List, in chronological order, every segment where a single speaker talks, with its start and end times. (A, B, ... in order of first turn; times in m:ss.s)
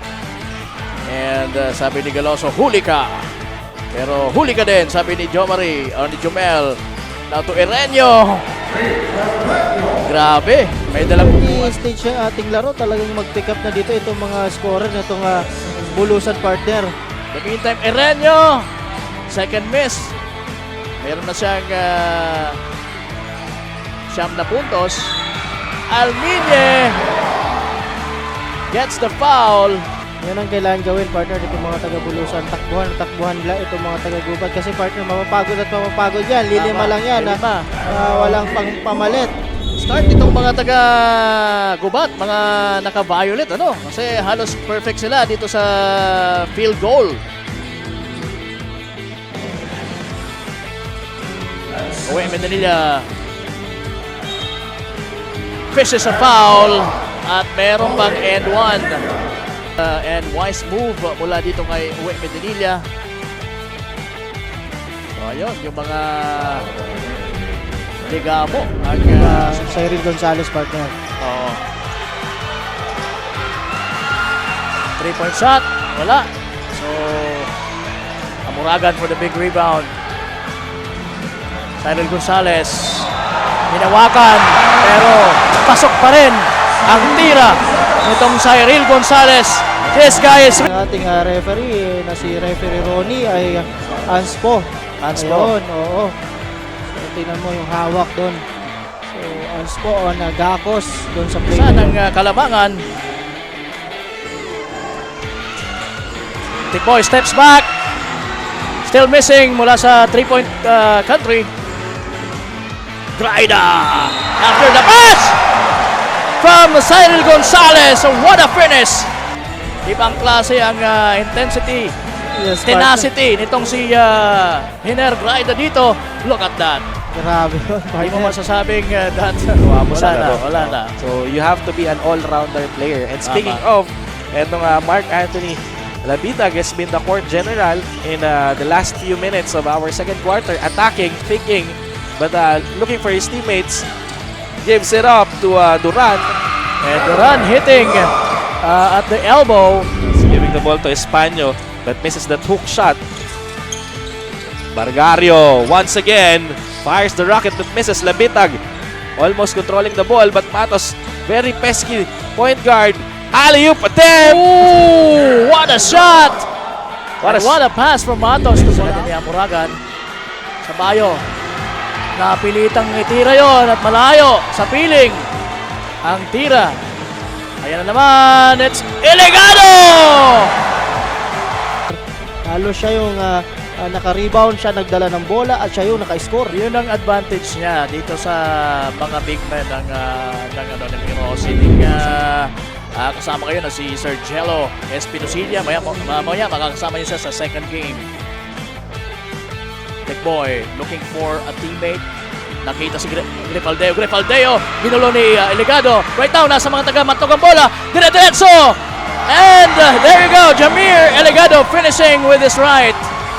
0:01.1-0:03.3 A
0:03.9-0:06.8 A
0:07.3-0:08.5 A
0:10.0-0:11.8 A
0:11.1-0:16.9 B
0:17.3-0:18.7 A
0:19.3-0:20.1 A
0:21.0-0:22.6 A
0:24.1-0:25.2 A
0:25.9-0:27.0 A
0:28.7-0:29.9 A
0:30.2-0:39.3 B
0:36.5-0:37.7 A
0:39.8-0:47.2 A
0:52.0-0:53.1 A
0:55.7-0:59.0 A
0:59.8-1:02.8 A
1:05.2-1:06.7 A
1:08.1-1:09.7 A
1:09.1-1:10.9 B
1:11.2-1:11.6 A
1:15.0-1:17.5 A
1:18.5-1:19.9 A
1:21.8-1:23.1 A
1:23.7-1:30.7 A
1:30.6-1:36.2 B
1:35.0-1:35.5 A
1:36.9-1:38.4 B
1:39.1-1:42.0 B
1:41.5-1:42.8 A
1:46.7-1:47.7 A
1:48.8-1:51.5 A
1:53.2-1:55.4 A
1:56.4-1:59.1 A
1:59.9-2:01.9 A
2:02.4-2:03.1 B
2:02.7-2:06.8 A
2:07.1-2:08.4 B
2:08.0-2:11.0 A
2:09.6-2:23.9 C
2:13.2-2:13.6 A
2:24.6-2:26.3 C
2:26.8-2:29.9 A
2:30.1-2:33.0 C
2:34.7-2:38.6 C
2:39.2-2:44.4 C
2:44.2-2:46.5 A
2:47.2-2:47.6 C
2:47.2-2:49.8 A
2:48.6-2:49.1 C
2:50.6-2:51.2 A
2:52.2-2:55.3 A
2:56.0-2:56.8 A
2:57.6-3:00.5 A
3:01.9-3:06.6 B
3:06.5-3:18.1 A
3:20.1-3:22.0 A
3:22.6-3:33.1 A